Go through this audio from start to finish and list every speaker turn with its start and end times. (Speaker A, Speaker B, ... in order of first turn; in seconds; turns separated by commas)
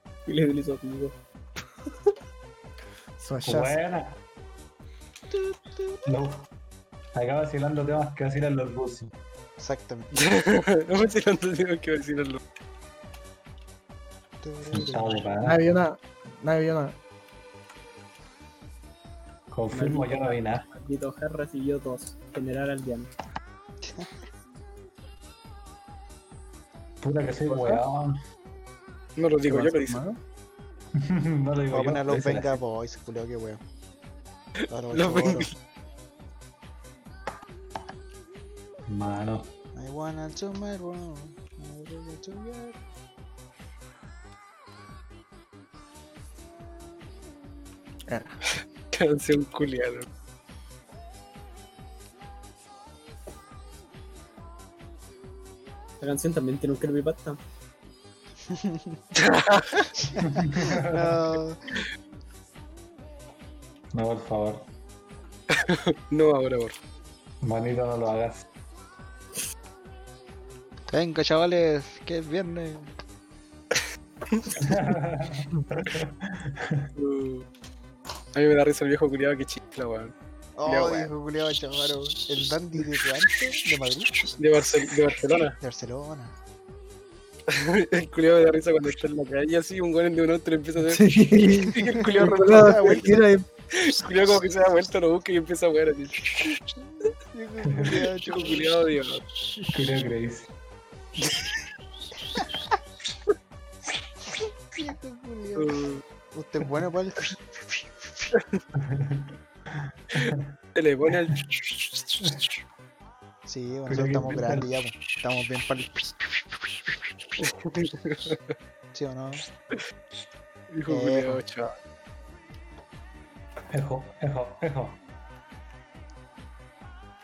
Speaker A: 0.2-1.1, Speaker B: 3.2-3.8, Speaker C: 3.4-4.2, Speaker C: 6.0-6.5, Speaker C: 7.1-9.1, Speaker D: 9.6-10.1, Speaker E: 10.1-12.4, Speaker D: 14.4-15.4, Speaker C: 14.7-15.7, Speaker B: 15.4-17.0, Speaker C: 19.5-20.6, Speaker A: 19.7-23.1, Speaker D: 23.8-24.2, Speaker C: 27.0-28.2, Speaker E: 29.2-30.0, Speaker B: 29.4-30.2, Speaker C: 31.0-32.6, Speaker D: 31.7-33.6, Speaker D: 34.7-35.5, Speaker E: 34.9-35.5, Speaker C: 38.9-39.5, Speaker D: 39.7-42.8, Speaker B: 48.1-48.4, Speaker E: 48.9-50.1, Speaker A: 56.0-57.4, Speaker D: 58.5-59.0, Speaker E: 59.2-59.7, Speaker D: 60.1-61.6, Speaker C: 60.2-61.2, Speaker C: 63.9-64.6, Speaker E: 65.5-66.8, Speaker C: 67.4-68.4, Speaker D: 70.9-72.9, Speaker C: 74.6-76.9, Speaker E: 77.0-77.5, Speaker E: 78.3-80.1, Speaker D: 80.6-84.3, Speaker E: 80.7-81.1, Speaker E: 84.4-85.5, Speaker D: 85.6-86.3, Speaker E: 87.5-93.2, Speaker B: 90.8-93.5, Speaker D: 91.9-93.2, Speaker E: 93.7-96.3, Speaker D: 97.0-98.7, Speaker C: 97.7-98.0, Speaker E: 98.2-99.2, Speaker C: 99.7-100.5, Speaker E: 101.2-101.5, Speaker D: 104.7-108.2, Speaker E: 105.5-106.0, Speaker C: 108.7-110.5, Speaker E: 110.2-111.4, Speaker D: 113.5-116.1, Speaker C: 113.9-114.7, Speaker E: 117.4-118.5, Speaker D: 118.9-119.4, Speaker E: 120.7-121.7, Speaker D: 120.9-121.4, Speaker C: 123.7-125.0